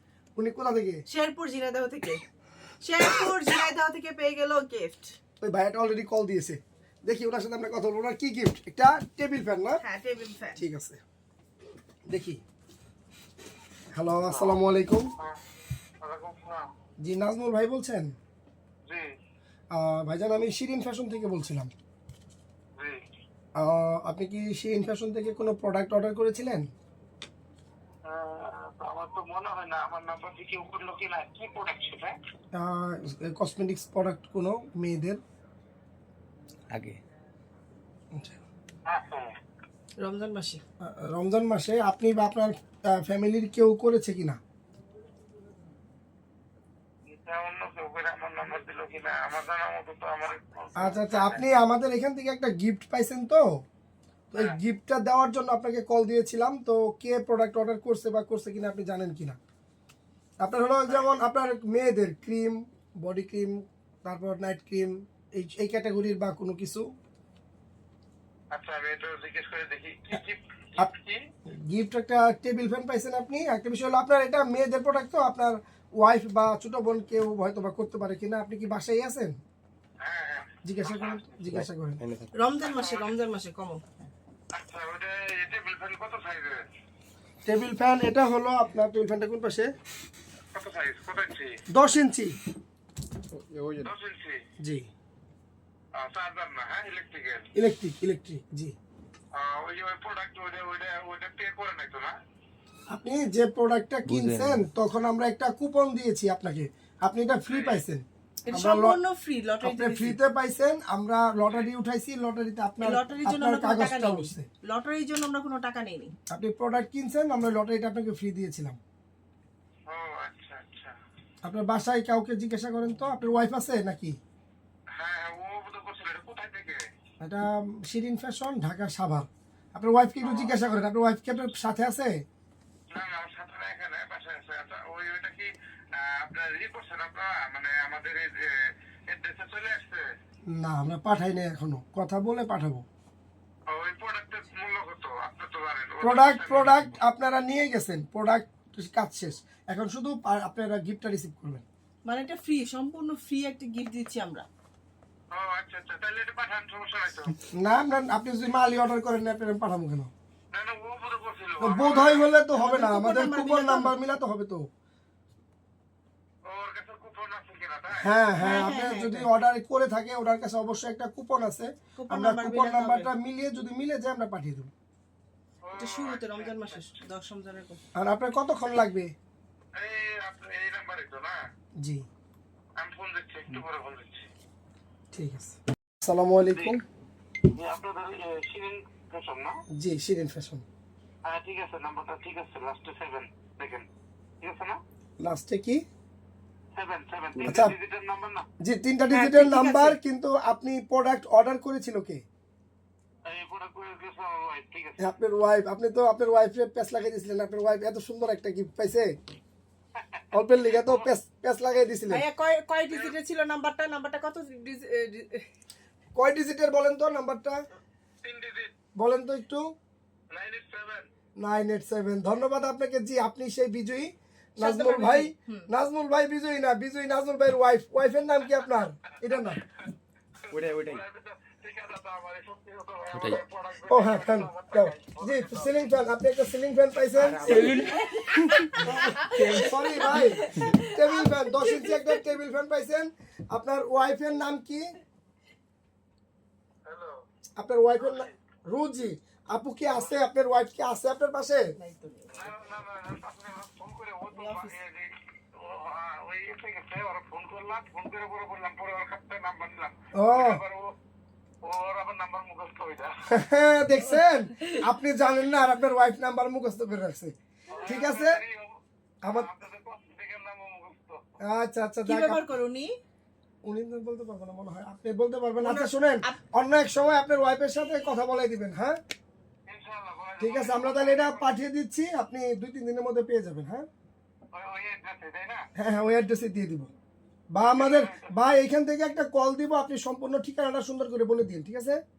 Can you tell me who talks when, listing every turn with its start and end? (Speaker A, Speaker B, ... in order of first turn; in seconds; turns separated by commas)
Speaker A: 0.3-1.0, Speaker B: 1.1-2.2, Speaker B: 2.8-5.2, Speaker A: 5.4-9.8, Speaker B: 9.8-10.6, Speaker A: 10.6-11.0, Speaker A: 12.1-12.4, Speaker A: 13.9-15.1, Speaker C: 14.3-14.6, Speaker C: 16.0-16.7, Speaker A: 17.0-18.1, Speaker A: 19.7-21.7, Speaker A: 23.6-26.7, Speaker C: 28.1-32.1, Speaker A: 32.5-35.2, Speaker D: 36.7-37.0, Speaker A: 38.1-38.4, Speaker C: 38.9-39.4, Speaker B: 40.0-40.6, Speaker A: 40.8-44.4, Speaker C: 47.1-51.4, Speaker A: 50.8-53.6, Speaker A: 54.3-59.4, Speaker A: 60.4-66.9, Speaker C: 68.5-71.2, Speaker A: 71.7-79.3, Speaker C: 80.0-81.4, Speaker A: 80.6-82.0, Speaker D: 81.5-82.3, Speaker B: 82.4-83.9, Speaker C: 82.6-83.1, Speaker C: 84.5-86.6, Speaker A: 87.5-89.7, Speaker C: 90.5-91.6, Speaker A: 91.7-92.4, Speaker D: 93.3-93.9, Speaker C: 93.8-94.4, Speaker A: 94.6-94.9, Speaker C: 96.0-97.5, Speaker A: 97.6-98.7, Speaker C: 99.3-102.1, Speaker A: 102.9-109.0, Speaker D: 104.1-104.7, Speaker C: 107.5-107.8, Speaker B: 108.5-110.2, Speaker A: 109.6-114.5, Speaker B: 112.8-116.1, Speaker A: 116.3-118.8, Speaker C: 119.9-120.9, Speaker A: 121.4-124.2, Speaker C: 124.9-126.8, Speaker A: 127.2-132.2, Speaker C: 130.2-130.5, Speaker C: 132.9-138.5, Speaker C: 139.1-140.0, Speaker A: 140.5-142.8, Speaker C: 143.7-146.9, Speaker A: 146.0-151.7, Speaker B: 152.1-154.5, Speaker C: 155.3-157.3, Speaker A: 157.5-160.1, Speaker C: 160.5-162.3, Speaker A: 161.6-164.7, Speaker B: 162.5-163.9, Speaker C: 166.5-168.1, Speaker A: 168.0-174.7, Speaker B: 168.4-169.2, Speaker B: 172.0-173.1, Speaker C: 175.7-176.8, Speaker B: 175.8-177.8, Speaker A: 178.0-179.1, Speaker C: 179.8-181.4, Speaker C: 182.8-184.3, Speaker A: 185.1-186.8, Speaker C: 186.5-186.8, Speaker C: 187.5-189.6, Speaker A: 189.7-190.7, Speaker C: 191.2-193.9, Speaker C: 194.4-194.8, Speaker A: 195.2-195.8, Speaker C: 196.8-198.4, Speaker A: 197.4-197.7, Speaker A: 198.6-202.2, Speaker B: 199.1-200.0, Speaker C: 203.3-205.1, Speaker A: 205.0-209.1, Speaker C: 210.0-210.2, Speaker A: 210.3-212.2, Speaker C: 210.8-211.1, Speaker B: 212.1-215.5, Speaker A: 216.2-217.6, Speaker C: 218.2-218.7, Speaker A: 219.0-219.7, Speaker C: 220.3-221.1, Speaker A: 221.4-229.6, Speaker B: 224.6-225.7, Speaker D: 230.5-231.0, Speaker C: 230.5-235.9, Speaker A: 233.3-237.8, Speaker D: 237.2-238.7, Speaker B: 237.5-242.0, Speaker A: 238.8-244.9, Speaker C: 246.8-247.2, Speaker A: 247.6-251.7, Speaker C: 248.0-248.3, Speaker B: 251.8-252.5, Speaker C: 252.3-260.9, Speaker B: 254.3-254.8, Speaker A: 260.1-260.6, Speaker C: 261.6-263.3, Speaker A: 263.3-267.3, Speaker C: 267.7-271.2, Speaker A: 267.9-268.4, Speaker A: 271.4-272.4, Speaker B: 272.1-272.9, Speaker A: 273.6-279.0, Speaker B: 275.6-276.4, Speaker C: 279.7-281.5, Speaker A: 280.4-283.9, Speaker C: 284.5-285.6, Speaker A: 285.8-286.9, Speaker A: 287.5-292.0, Speaker C: 287.6-288.3